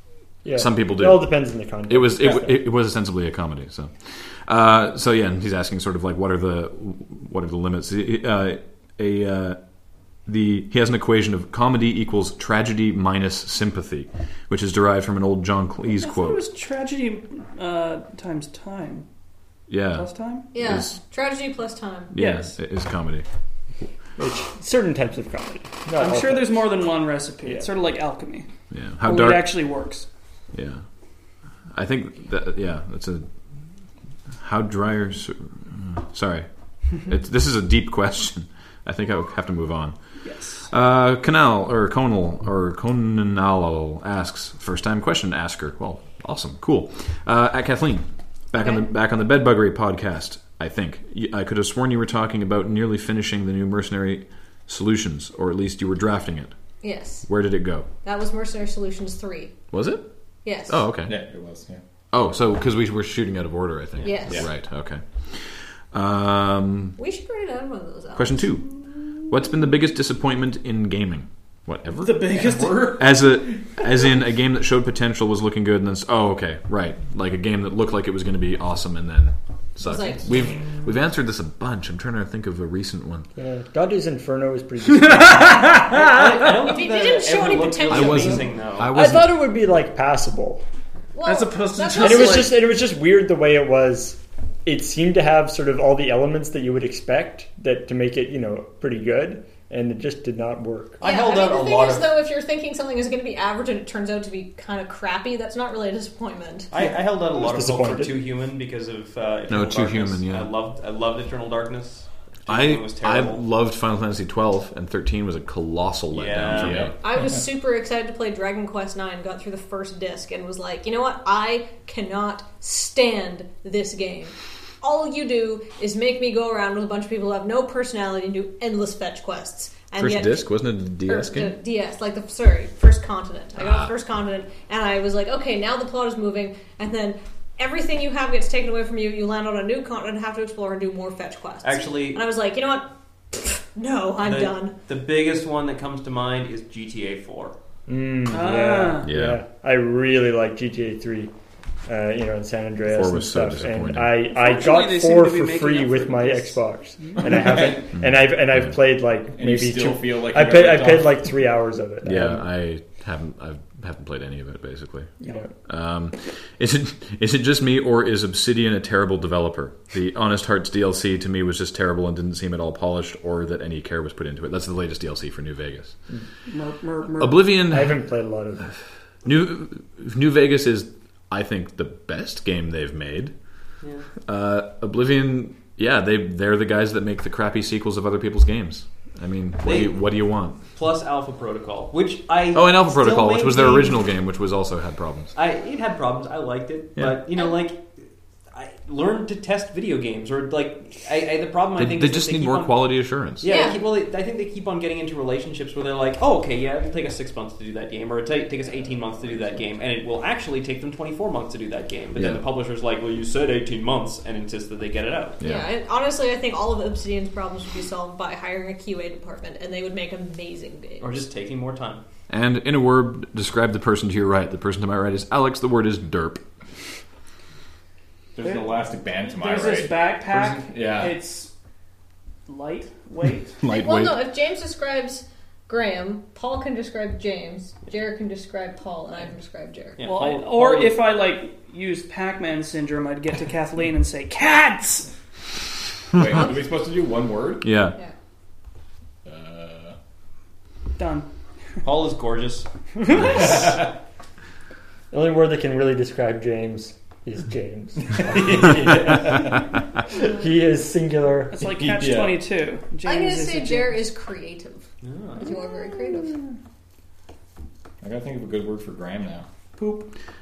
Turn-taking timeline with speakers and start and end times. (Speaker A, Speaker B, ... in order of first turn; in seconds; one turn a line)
Speaker A: 0.4-2.6
Speaker B: 0.6-9.6
Speaker B: 10.3-16.4
Speaker C: 15.9-19.1
Speaker B: 19.7-21.0
Speaker C: 19.9-20.5
Speaker D: 20.5-22.1
Speaker B: 22.1-23.2
Speaker C: 22.2-22.6
Speaker A: 24.2-26.7
Speaker C: 25.9-28.5
Speaker B: 28.7-29.6
Speaker C: 29.0-30.1
Speaker B: 30.5-30.9
Speaker B: 31.7-33.3
Speaker B: 34.4-36.5
Speaker B: 37.0-56.5
Speaker C: 40.2-40.7
Speaker D: 48.5-48.9
Speaker D: 56.8-57.3
Speaker B: 57.2-57.9
Speaker D: 58.0-59.6
Speaker B: 59.7-60.1
Speaker D: 60.4-60.8
Speaker B: 60.7-61.2
Speaker E: 61.0-61.8
Speaker B: 62.1-67.0
Speaker D: 64.0-64.5
Speaker D: 67.0-68.5
Speaker B: 68.2-83.3
Speaker C: 72.0-73.2
Speaker D: 79.8-80.3
Speaker A: 83.4-86.0
Speaker C: 85.0-86.5
Speaker F: 85.8-88.9
Speaker D: 86.6-88.5
Speaker B: 87.9-89.3
Speaker A: 88.9-90.6
Speaker D: 91.1-92.5
Speaker C: 91.2-92.6
Speaker A: 92.0-101.0
Speaker F: 101.0-102.2
Speaker D: 101.0-106.7
Speaker F: 106.7-113.4
Speaker A: 106.8-108.1
Speaker B: 109.5-110.5
Speaker B: 112.5-116.9
Speaker F: 116.1-116.9
Speaker E: 116.5-117.3
Speaker D: 117.0-144.7
Speaker B: 130.0-131.5
Speaker B: 133.6-133.9
Speaker F: 141.6-142.2
Speaker F: 144.2-147.6
Speaker A: 147.9-151.3
Speaker C: 148.3-149.1
Speaker B: 149.0-149.4
Speaker A: 151.8-162.5
Speaker B: 152.8-154.2
Speaker C: 154.3-157.2
Speaker B: 158.0-158.8
Speaker E: 159.3-161.3
Speaker B: 162.0-165.1
Speaker A: 165.2-165.5
Speaker B: 165.7-176.0
Speaker C: 176.5-177.5
Speaker B: 177.2-183.3
Speaker A: 177.7-178.7
Speaker F: 183.8-184.1
Speaker B: 184.2-190.6
Speaker F: 189.6-194.0
Speaker B: 192.5-195.3
Speaker F: 195.3-197.9
Speaker F: 198.5-215.4
Speaker B: 201.8-203.6
Speaker D: 203.5-203.8
Speaker B: 212.1-212.5
Speaker B: 215.4-215.7
Speaker D: 215.4-221.2
Speaker F: 221.0-222.0
Speaker B: 222.3-226.4
Speaker E: 228.3-231.2
Speaker C: 228.4-231.5
Speaker C: 232.5-233.6
Speaker B: 233.6-234.2
Speaker D: 233.7-240.0
Speaker F: 240.0-241.0
Speaker C: 240.0-245.1
Speaker E: 246.1-247.7
Speaker B: 247.6-247.9
Speaker E: 249.2-249.9
Speaker C: 251.0-251.3
Speaker F: 251.8-252.7
Speaker C: 253.0-253.6
Speaker F: 253.3-253.6
Speaker A: 255.1-261.7
Speaker E: 258.2-259.5
Speaker C: 261.5-264.1
Speaker E: 261.8-262.4
Speaker D: 263.0-264.9
Speaker F: 265.0-265.5
Speaker D: 265.4-266.4
Speaker C: 265.4-266.5
Speaker E: 268.0-269.4
Speaker C: 269.8-270.1